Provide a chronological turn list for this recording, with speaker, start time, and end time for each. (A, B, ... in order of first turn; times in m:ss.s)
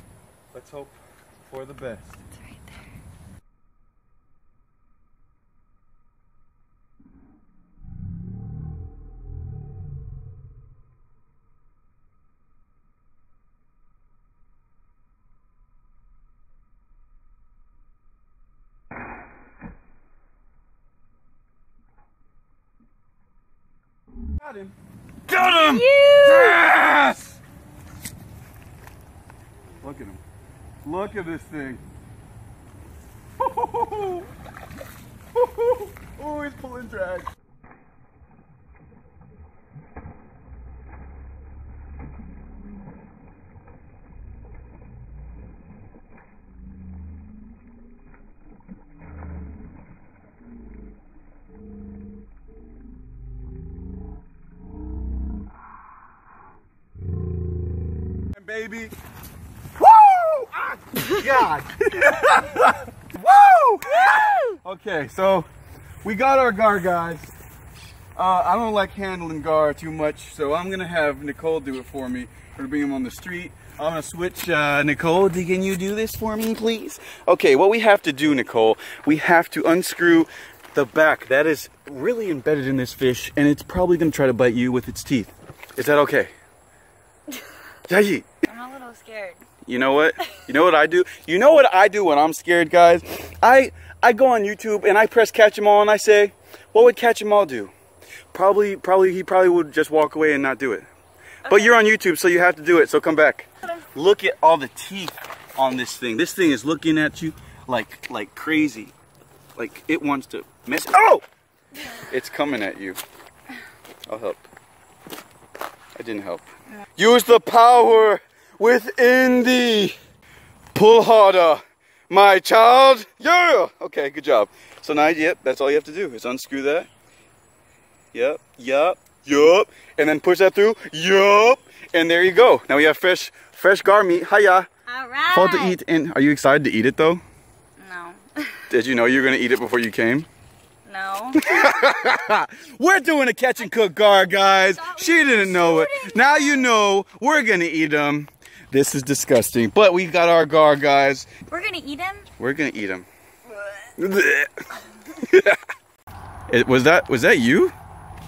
0:00.5-0:02.2 A
0:02.3-0:02.8 B
0:24.4-0:24.7 A
0:25.3-0:27.4 A
0:25.3-0:26.6 B
0:29.8-0:30.2 A
0:30.8-0:31.8 A
0:33.4-0:34.3 A
0:35.3-0:37.3 A
0:58.3-0:58.9 A
0:59.7-1:05.5 A
1:06.0-1:07.3 A
1:08.1-1:26.3 A
1:27.9-1:28.3 A
1:28.4-1:29.4 B
1:29.6-1:37.7 A
1:38.3-1:40.8 A
1:41.4-1:41.7 B
1:41.4-1:48.9 A
1:49.6-1:51.2 A
1:51.9-1:53.0 A
1:54.1-1:54.5 A
1:56.0-2:00.0 A
2:00.7-2:06.9 A
2:08.1-2:14.7 A
2:14.8-2:15.8 B
2:15.3-2:17.2 A
2:17.8-2:18.6 B
2:18.7-2:20.3 A
2:20.8-2:22.3 B
2:21.4-2:31.3 A
2:24.7-2:26.7 B
2:31.5-2:32.3 B
2:32.4-2:33.1 A
2:34.0-2:35.6 A
2:36.5-2:37.7 A